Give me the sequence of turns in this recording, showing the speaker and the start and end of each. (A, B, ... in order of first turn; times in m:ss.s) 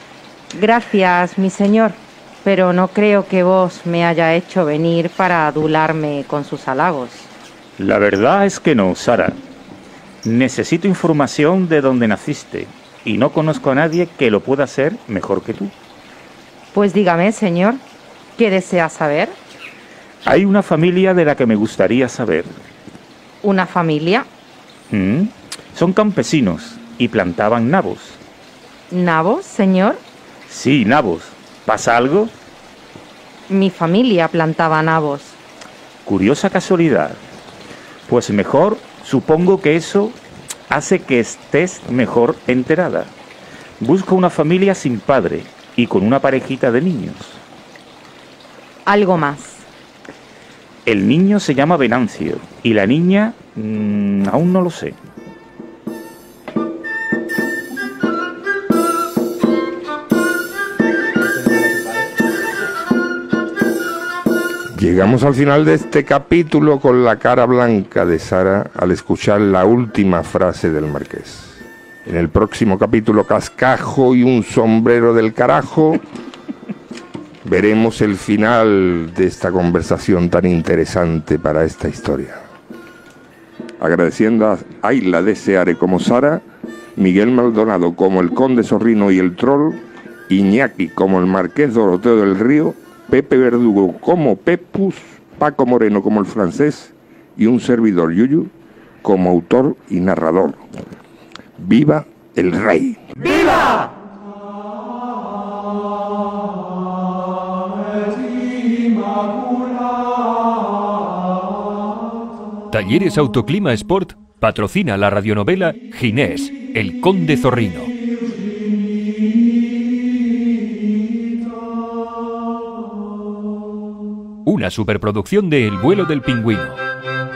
0:00.5-0:07.3 A
0:07.8-0:09.4 B
0:10.2-0:15.7 B
0:16.7-0:17.8 A
0:18.4-0:19.3 A
0:20.2-0:22.5 B
0:23.4-0:24.3 A
0:24.9-0:28.2 B
0:28.9-0:30.0 A
0:30.5-0:32.3 B
0:33.5-0:35.4 A
0:36.0-0:37.2 B
0:38.1-0:40.2 B
0:40.7-0:43.1 B
0:43.8-0:47.4 B
0:48.8-0:49.6 A
0:50.8-0:55.0 B
1:04.8-1:16.0 C
1:17.4-1:22.4 C
1:23.8-1:26.4 C
1:27.0-1:38.5 C
1:39.0-1:40.6 C
1:41.6-1:43.4 C
1:52.7-1:57.9 D
2:04.4-2:06.8 D